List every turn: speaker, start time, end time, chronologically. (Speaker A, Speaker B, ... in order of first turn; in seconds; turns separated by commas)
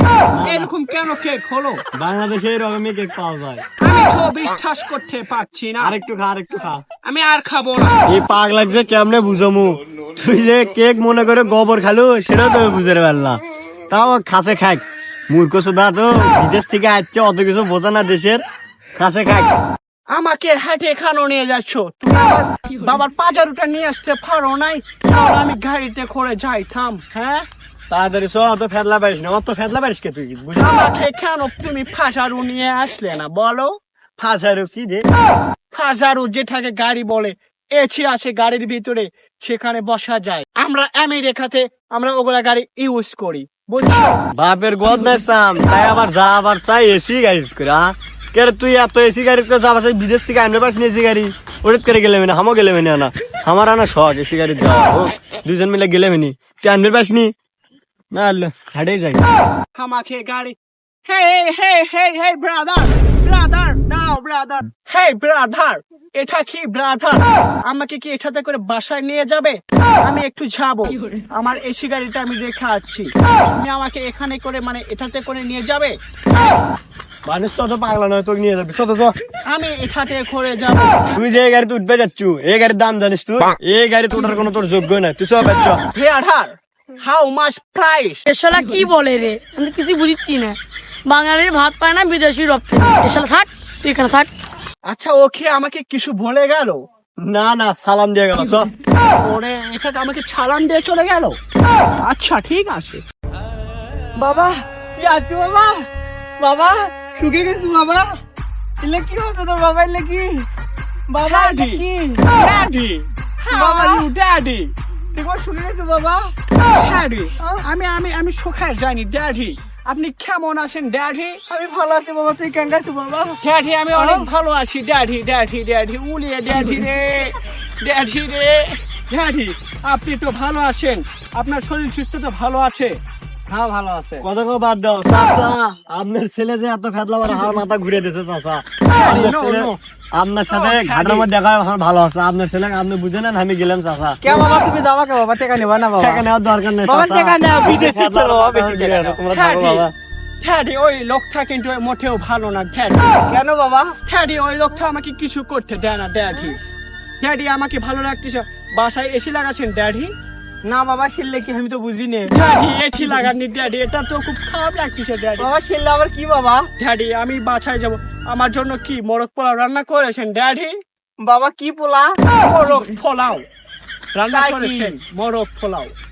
Speaker A: 0.3-0.7, Speaker B: 0.4-1.8, Speaker A: 1.9-3.6, Speaker B: 3.8-6.0, Speaker A: 5.8-6.8, Speaker B: 7.0-8.0, Speaker A: 8.1-18.4, Speaker A: 19.0-19.5, Speaker B: 20.1-27.5, Speaker A: 27.9-30.8, Speaker B: 30.6-33.7, Speaker A: 34.2-35.1, Speaker B: 35.7-44.2, Speaker A: 44.3-57.3, Speaker A: 58.1-59.2, Speaker B: 59.8-76.6, Speaker A: 77.3-79.2, Speaker B: 79.5-81.2, Speaker A: 81.1-85.8, Speaker B: 85.9-88.2, Speaker C: 88.3-94.3, Speaker B: 94.8-96.8, Speaker A: 97.2-98.7, Speaker B: 99.0-101.4, Speaker B: 102.0-103.0, Speaker D: 104.2-105.8, Speaker D: 106.4-108.1, Speaker D: 108.8-110.5, Speaker D: 111.1-112.3, Speaker B: 111.2-114.7, Speaker D: 113.5-114.1, Speaker D: 115.1-116.3, Speaker B: 116.8-121.4, Speaker D: 121.5-123.4, Speaker B: 123.4-133.0, Speaker D: 124.0-124.3, Speaker D: 133.5-134.3, Speaker A: 134.2-144.5, Speaker B: 138.9-139.7, Speaker B: 140.5-141.3, Speaker D: 144.2-146.2, Speaker A: 146.0-149.9, Speaker D: 146.8-149.2, Speaker B: 149.3-149.9, Speaker B: 150.4-153.1, Speaker D: 153.3-154.0, Speaker B: 154.1-156.6, Speaker B: 157.2-160.1, Speaker D: 160.7-162.3, Speaker B: 162.3-165.5, Speaker D: 163.0-163.3, Speaker D: 165.4-166.7, Speaker B: 166.8-170.8, Speaker D: 171.2-172.2, Speaker B: 172.4-173.5, Speaker B: 174.1-175.9, Speaker D: 174.3-174.9